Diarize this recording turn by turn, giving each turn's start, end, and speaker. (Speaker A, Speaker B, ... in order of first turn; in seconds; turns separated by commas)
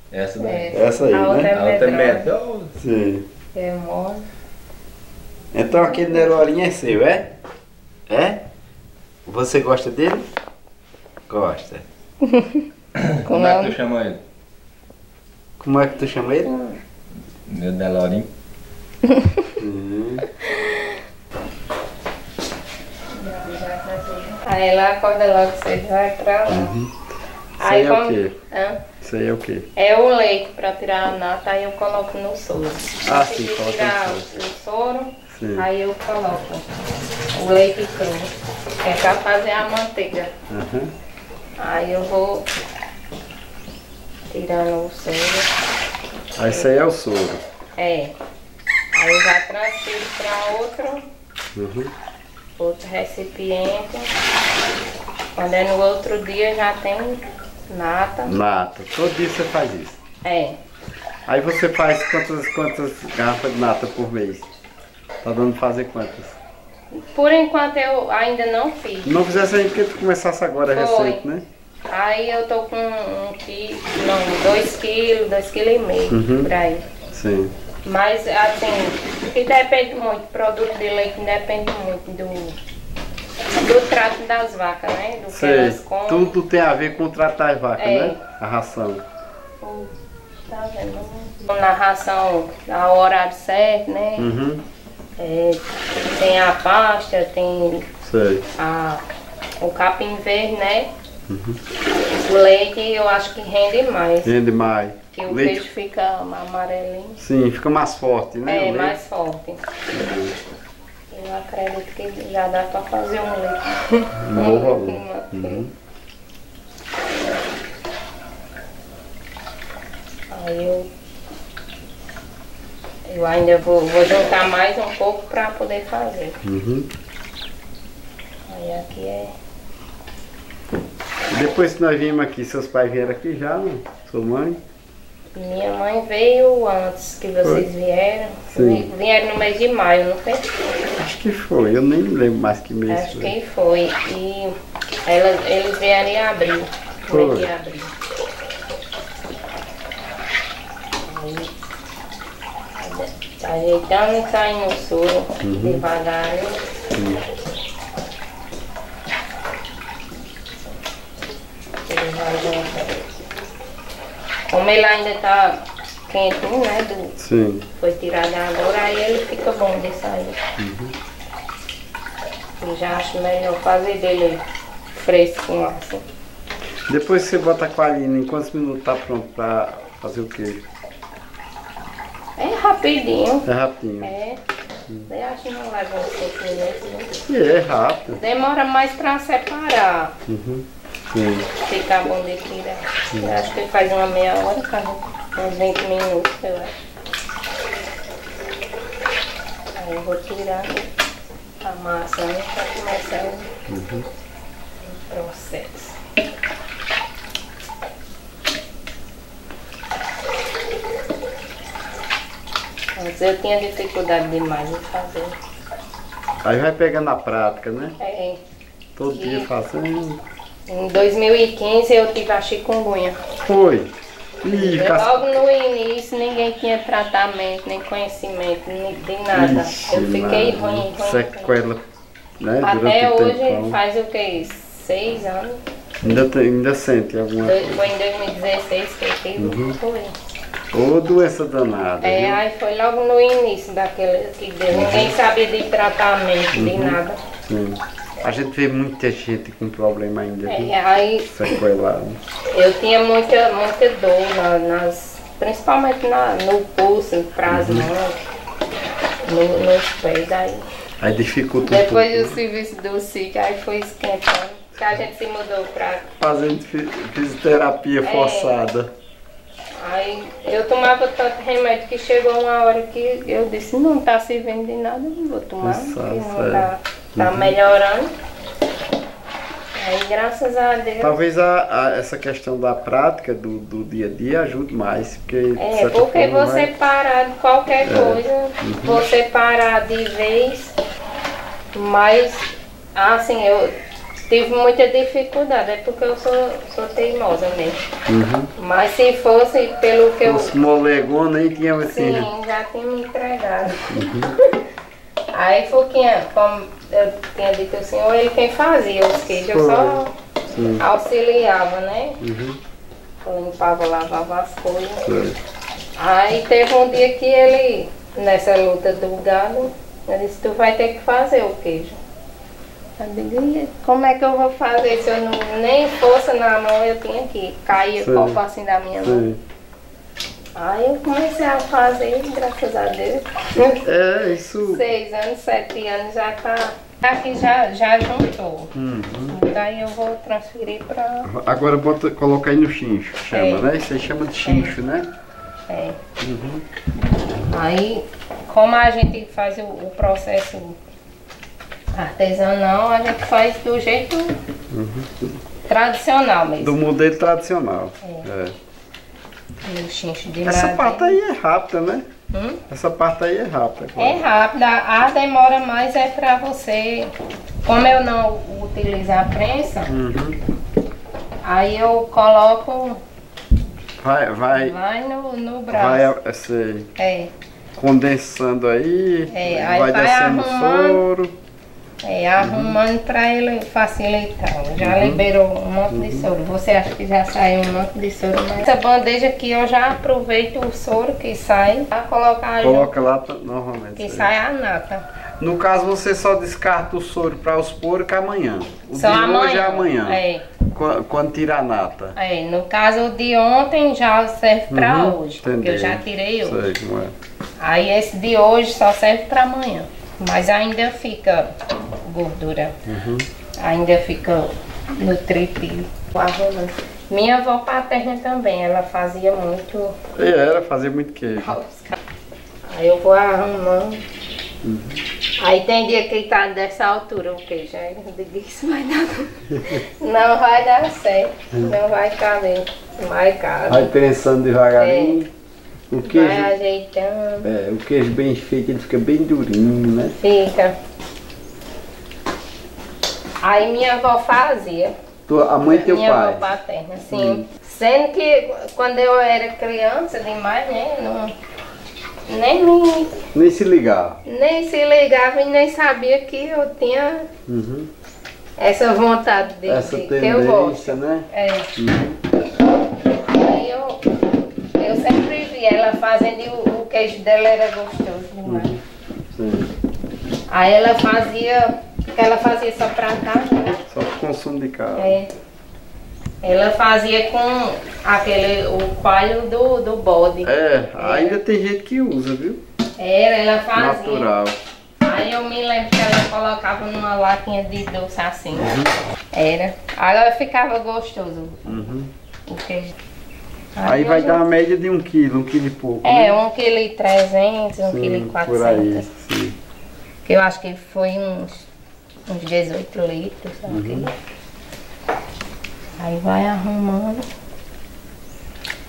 Speaker A: 0.1-0.8, Speaker B: 0.4-2.3, Speaker C: 0.7-1.5, Speaker A: 1.5-2.7, Speaker C: 2.8-3.2, Speaker B: 3.5-4.2, Speaker C: 5.5-7.3, Speaker B: 5.7-6.3, Speaker C: 8.1-8.4, Speaker C: 9.3-10.3, Speaker C: 11.3-11.8, Speaker B: 12.2-12.7, Speaker A: 13.0-14.2, Speaker B: 13.2-13.8, Speaker C: 15.6-16.5, Speaker B: 16.4-16.8, Speaker A: 17.5-18.3, Speaker B: 19.0-19.5, Speaker C: 19.6-20.2, Speaker B: 20.4-20.9, Speaker B: 23.1-26.7, Speaker C: 26.5-26.9, Speaker C: 27.6-28.4, Speaker B: 27.6-28.8, Speaker C: 29.0-29.7, Speaker B: 29.8-36.7, Speaker C: 33.1-34.3, Speaker C: 35.3-35.7, Speaker B: 37.3-38.3, Speaker B: 38.8-40.3, Speaker C: 40.5-40.9, Speaker B: 41.6-42.5, Speaker B: 44.3-45.5, Speaker C: 46.4-47.4, Speaker B: 47.8-48.1, Speaker B: 48.9-51.1, Speaker C: 51.5-51.9, Speaker B: 52.6-54.1, Speaker B: 55.4-58.4, Speaker C: 58.2-60.0, Speaker B: 60.2-60.6, Speaker C: 61.3-64.5, Speaker C: 65.2-66.4, Speaker B: 66.9-69.2, Speaker C: 69.0-71.4, Speaker B: 70.7-71.2, Speaker B: 71.9-76.8, Speaker C: 76.1-76.5, Speaker C: 77.1-77.5, Speaker B: 77.8-82.6, Speaker B: 83.5-86.3, Speaker C: 85.3-89.0, Speaker B: 87.8-88.2, Speaker B: 89.6-89.9, Speaker B: 90.5-94.3, Speaker C: 94.2-94.6, Speaker B: 95.2-97.9, Speaker C: 98.0-98.5, Speaker B: 98.6-99.0, Speaker B: 99.6-100.9, Speaker C: 101.3-101.6, Speaker B: 102.1-104.3, Speaker C: 104.2-105.6, Speaker B: 105.1-107.2, Speaker C: 107.2-109.0, Speaker B: 108.5-109.6, Speaker C: 109.9-110.4, Speaker B: 111.1-115.6, Speaker C: 114.2-115.7, Speaker B: 120.3-120.9, Speaker B: 123.1-126.4, Speaker C: 126.4-126.9, Speaker B: 128.5-129.3, Speaker C: 131.3-134.6, Speaker B: 135.3-140.5, Speaker C: 138.5-138.9, Speaker C: 141.0-143.3, Speaker B: 142.9-144.5, Speaker B: 145.1-147.9, Speaker C: 147.1-147.5, Speaker B: 151.1-151.5, Speaker B: 152.8-156.6, Speaker C: 155.4-155.8, Speaker C: 156.9-157.2, Speaker B: 161.9-163.1, Speaker B: 164.5-167.2, Speaker C: 167.2-167.7, Speaker B: 167.8-170.4, Speaker C: 170.6-170.9, Speaker B: 172.6-174.4, Speaker B: 174.9-176.0, Speaker C: 176.9-180.6, Speaker B: 182.4-183.5, Speaker C: 183.4-184.1, Speaker B: 184.0-184.4, Speaker B: 185.1-187.1, Speaker C: 187.3-188.2, Speaker B: 188.1-190.2, Speaker C: 190.3-191.5, Speaker B: 191.6-196.7, Speaker B: 199.8-200.9, Speaker B: 201.6-203.5, Speaker C: 203.7-204.1, Speaker B: 204.8-206.0, Speaker B: 213.0-215.3, Speaker C: 216.4-218.0, Speaker B: 218.0-218.4, Speaker C: 219.0-220.2, Speaker B: 219.1-219.5, Speaker B: 220.7-223.2, Speaker C: 223.5-223.9, Speaker C: 224.4-225.2, Speaker B: 224.5-231.6, Speaker C: 229.3-231.8, Speaker C: 232.4-233.8, Speaker B: 232.6-236.2, Speaker C: 236.0-237.9, Speaker B: 237.4-240.2, Speaker C: 239.4-239.8, Speaker C: 240.7-242.4, Speaker B: 242.0-247.2, Speaker C: 244.7-245.1, Speaker C: 246.5-250.7, Speaker B: 250.5-251.6, Speaker C: 251.3-252.2, Speaker B: 252.5-258.2, Speaker C: 257.5-257.9, Speaker B: 259.2-260.6, Speaker C: 261.0-262.4, Speaker B: 261.6-266.1, Speaker C: 266.2-268.9, Speaker B: 268.0-268.6, Speaker B: 269.8-278.1, Speaker C: 275.6-277.5, Speaker B: 279.8-281.2, Speaker C: 281.0-286.7, Speaker B: 285.6-290.8, Speaker C: 287.8-289.0, Speaker B: 291.7-293.7, Speaker B: 294.3-297.8, Speaker C: 298.1-298.5, Speaker B: 298.6-300.5, Speaker C: 300.2-302.3, Speaker B: 301.8-304.6, Speaker C: 303.9-304.3, Speaker B: 305.3-310.1, Speaker C: 309.3-310.8, Speaker B: 310.8-312.2, Speaker C: 312.2-312.6, Speaker B: 313.2-315.2, Speaker C: 315.1-315.4, Speaker B: 316.0-322.0, Speaker B: 323.0-329.2, Speaker C: 328.0-328.4, Speaker C: 329.0-329.4, Speaker B: 330.6-333.9, Speaker C: 333.8-334.9, Speaker B: 334.6-338.7, Speaker C: 338.7-339.4, Speaker B: 339.3-341.3, Speaker C: 341.3-345.1, Speaker B: 343.3-343.7, Speaker B: 344.4-344.7, Speaker B: 345.7-346.0, Speaker C: 346.2-346.7, Speaker B: 347.5-350.8, Speaker B: 351.9-354.4, Speaker C: 354.7-355.4, Speaker B: 355.7-356.8, Speaker C: 356.6-358.6, Speaker B: 358.0-358.3, Speaker B: 359.6-361.2, Speaker C: 360.4-362.1, Speaker B: 362.3-362.6, Speaker C: 362.7-364.3, Speaker B: 364.0-367.1, Speaker B: 367.6-370.0, Speaker C: 369.9-370.4, Speaker B: 371.4-373.0, Speaker C: 374.0-374.8, Speaker B: 374.5-376.1, Speaker C: 375.7-376.9, Speaker B: 377.0-377.3, Speaker C: 377.8-381.3, Speaker B: 379.3-381.0, Speaker B: 382.0-392.9, Speaker C: 382.4-382.8, Speaker C: 384.8-385.2, Speaker C: 385.9-386.3, Speaker C: 392.6-394.3, Speaker B: 394.0-395.1, Speaker C: 395.4-402.1, Speaker B: 398.9-400.4, Speaker B: 402.1-406.6, Speaker C: 404.7-407.1, Speaker B: 407.6-412.8, Speaker C: 412.9-413.3, Speaker B: 413.6-420.0, Speaker C: 420.2-421.6, Speaker B: 421.4-422.0, Speaker B: 422.7-424.1, Speaker C: 424.6-425.0, Speaker B: 425.4-433.9, Speaker C: 429.5-429.8, Speaker C: 433.7-435.3, Speaker B: 434.8-435.2, Speaker C: 435.9-436.5, Speaker B: 436.0-437.5, Speaker C: 437.4-440.1, Speaker B: 440.2-440.8, Speaker B: 443.4-444.9, Speaker C: 445.3-446.4, Speaker B: 445.6-451.3, Speaker C: 447.1-447.4, Speaker B: 452.3-453.2, Speaker C: 453.3-454.2, Speaker B: 454.2-457.3, Speaker C: 457.5-457.9, Speaker B: 458.6-461.7, Speaker C: 459.7-462.2, Speaker B: 463.3-464.0, Speaker B: 464.8-468.7, Speaker C: 468.5-469.7, Speaker B: 470.5-473.8, Speaker C: 473.8-475.2, Speaker B: 474.9-475.3, Speaker B: 476.4-481.4, Speaker C: 480.5-482.6, Speaker B: 483.0-484.3, Speaker C: 483.8-484.6, Speaker B: 485.0-488.8, Speaker C: 488.6-488.9, Speaker B: 489.3-491.9, Speaker C: 491.7-492.1, Speaker B: 492.5-492.9, Speaker B: 493.8-494.4, Speaker C: 493.8-496.4, Speaker B: 496.0-499.1, Speaker C: 497.9-499.6, Speaker B: 500.2-501.7, Speaker B: 502.3-504.1, Speaker C: 503.7-504.1, Speaker B: 506.0-507.3